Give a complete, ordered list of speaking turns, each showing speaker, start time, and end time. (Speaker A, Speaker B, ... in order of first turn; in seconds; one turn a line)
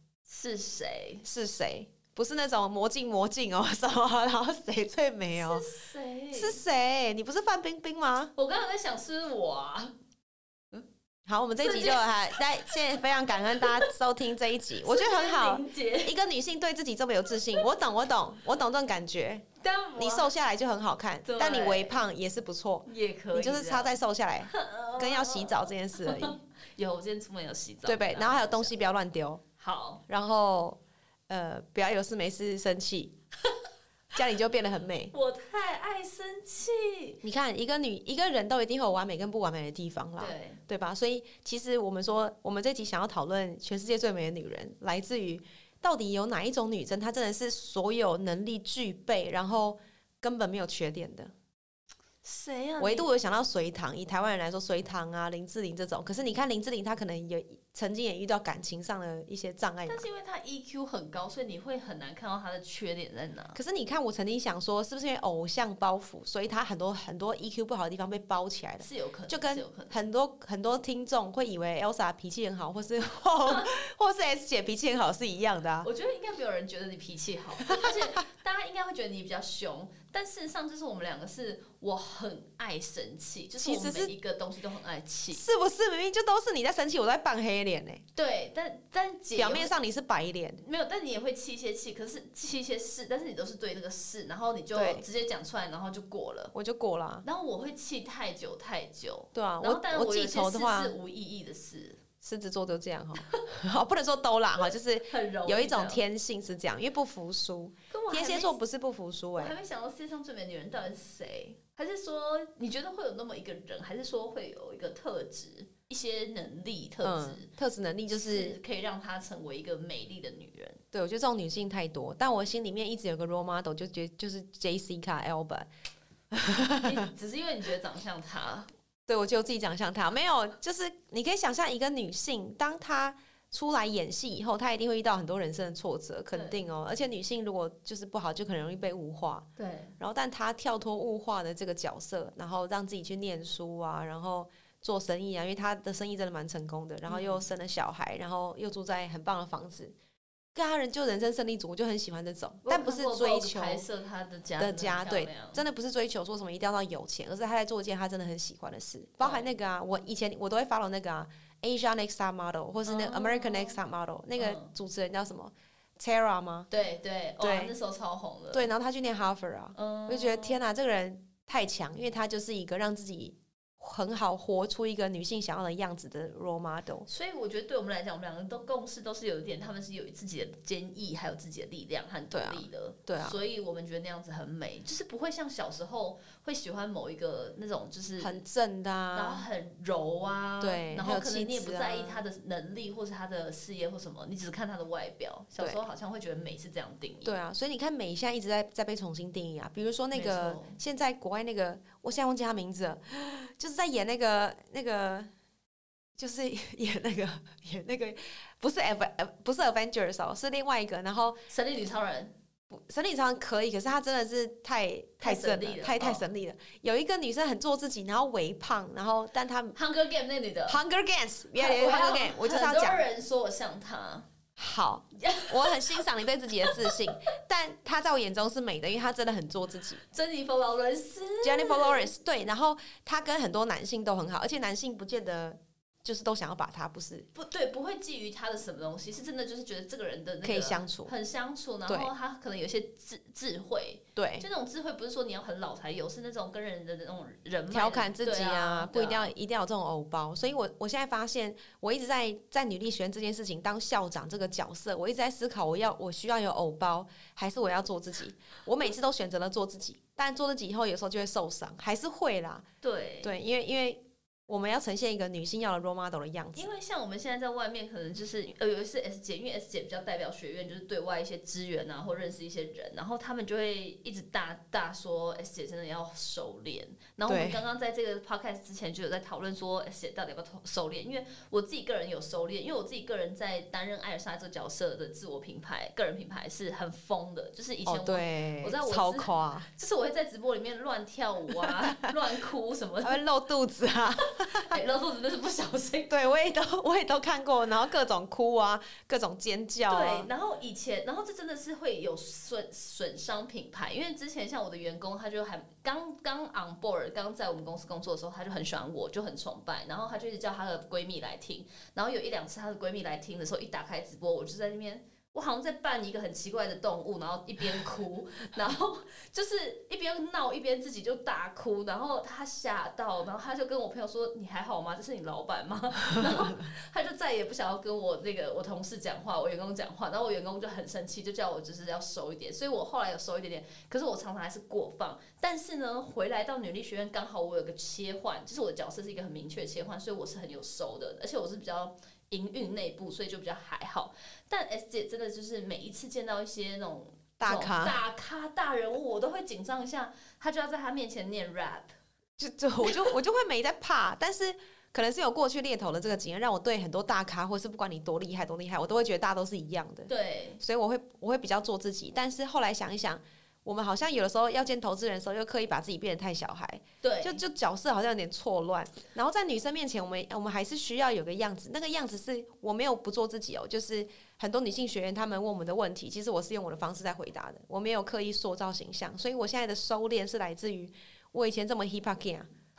Speaker A: 0.3-1.2
Speaker B: 1.2-5.6
Speaker A: 5.3-6.6
Speaker B: 6.3-8.3
Speaker A: 8.3-9.9
Speaker B: 11.3-19.4
Speaker A: 11.6-13.9
Speaker A: 14.8-16.1
Speaker A: 19.6-20.3
Speaker B: 19.9-26.4
Speaker A: 21.2-22.0
Speaker A: 22.9-28.7
Speaker B: 27.9-29.4
Speaker A: 29.6-30.0
Speaker B: 30.1-33.1
Speaker B: 34.1-35.1
Speaker A: 35.1-37.2
Speaker B: 37.2-51.3
Speaker A: 40.2-40.6
Speaker A: 52.2-53.1
Speaker B: 52.8-60.1
Speaker A: 59.9-63.6
Speaker B: 63.5-75.9
Speaker A: 68.8-70.0
Speaker A: 73.4-73.7
Speaker A: 75.8-85.4
Speaker B: 77.6-78.2
Speaker B: 83.6-84.1
Speaker B: 85.3-88.0
Speaker A: 88.1-89.7
Speaker B: 89.3-90.6
Speaker A: 90.6-96.5
Speaker B: 94.7-95.0
Speaker B: 96.5-97.2
Speaker A: 97.2-102.0
Speaker B: 99.3-100.9
Speaker B: 102.2-109.5
Speaker A: 105.1-106.0
Speaker A: 107.9-108.5
Speaker A: 109.3-117.5
Speaker B: 117.0-118.5
Speaker A: 118.1-120.8
Speaker B: 120.9-125.7
Speaker B: 126.3-126.9
Speaker A: 126.8-128.7
Speaker B: 129.1-139.5
Speaker A: 136.3-136.6
Speaker A: 139.6-139.9
Speaker B: 140.0-149.9
Speaker A: 147.1-147.4
Speaker B: 150.5-153.8
Speaker A: 152.6-155.6
Speaker B: 154.6-166.7
Speaker A: 159.2-159.5
Speaker A: 162.8-163.8
Speaker A: 164.4-164.7
Speaker A: 166.7-168.7
Speaker B: 167.4-167.7
Speaker B: 168.5-177.1
Speaker A: 169.7-170.6
Speaker A: 177.1-188.4
Speaker B: 182.3-183.4
Speaker B: 188.2-189.4
Speaker A: 189.1-197.3
Speaker B: 190.6-192.2
Speaker B: 195.6-195.8
Speaker B: 197.2-205.3
Speaker A: 200.1-200.8
Speaker B: 206.2-211.4
Speaker A: 211.5-212.3
Speaker B: 212.7-219.8
Speaker A: 215.2-216.2
Speaker A: 219.7-220.8
Speaker B: 220.7-223.1
Speaker A: 221.5-224.3
Speaker B: 224.6-230.0
Speaker A: 225.2-226.1
Speaker A: 226.6-226.9
Speaker A: 230.1-232.1
Speaker B: 231.4-237.3
Speaker A: 237.3-249.3
Speaker B: 240.4-241.1
Speaker B: 244.2-244.4
Speaker B: 247.7-262.6
Speaker A: 262.8-263.4
Speaker B: 263.2-266.7
Speaker A: 266.6-293.2
Speaker B: 277.3-277.6
Speaker B: 287.8-289.7
Speaker B: 291.6-292.0
Speaker B: 293.0-294.8
Speaker A: 294.7-296.1
Speaker B: 296.1-300.3
Speaker A: 299.9-351.9
Speaker B: 347.4-348.0
Speaker B: 352.4-382.5
Speaker A: 360.1-360.6
Speaker A: 367.0-367.4